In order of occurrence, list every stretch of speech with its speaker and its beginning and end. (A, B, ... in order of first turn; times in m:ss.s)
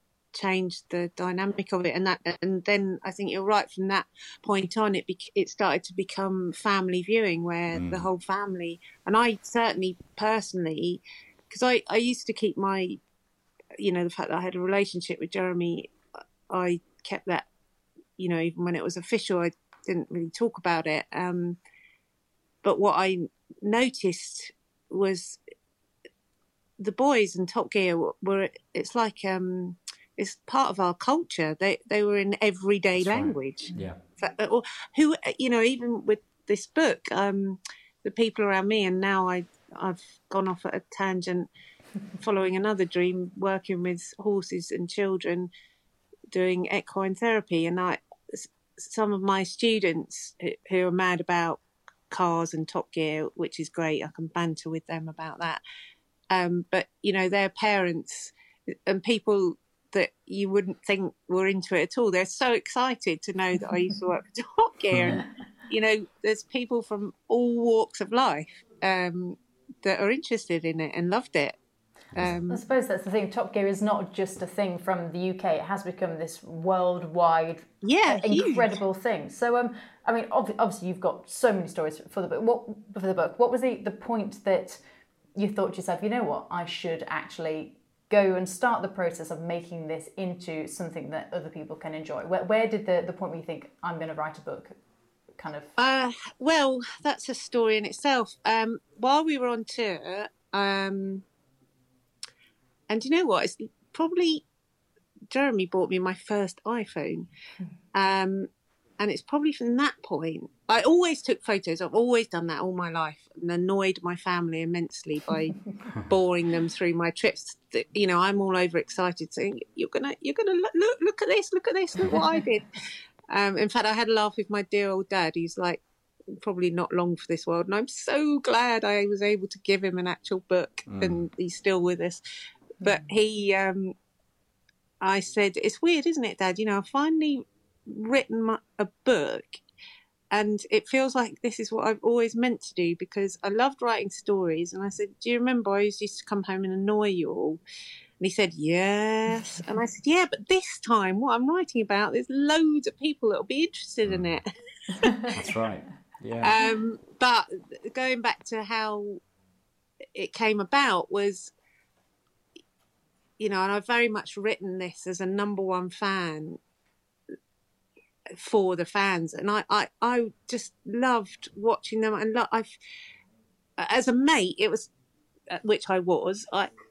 0:00.3-0:13.0 A
0:07.7-0:08.1 B
0:13.8-0:15.9 A
0:16.5-0:17.5 A
0:18.2-0:21.6 A
0:22.6-0:25.4 A
0:26.8-0:41.5 A
0:33.0-0:34.0 B
0:42.2-0:45.5 A
0:46.3-0:55.6 A
0:56.3-0:58.3 A
0:58.9-1:11.6 A
1:12.2-1:12.6 A
1:12.5-1:24.8 C
1:17.8-1:18.8 A
1:25.4-1:34.8 C
1:35.4-1:35.7 C
1:35.8-1:41.2 A
1:42.9-1:44.4 A
1:45.3-1:47.3 A
1:47.9-2:02.6 A
2:03.3-2:05.8 A
2:06.4-2:12.2 A
2:10.9-2:11.2 B
2:12.8-2:13.9 A
2:15.0-2:19.6 A
2:20.3-2:27.6 A
2:28.2-2:35.3 A
2:34.0-2:34.4 B
2:35.3-2:36.5 B
2:36.4-2:39.2 A
2:40.1-2:41.5 A
2:43.4-2:46.6 A
2:48.4-2:52.7 A
2:53.8-2:54.9 A
2:55.5-2:56.7 A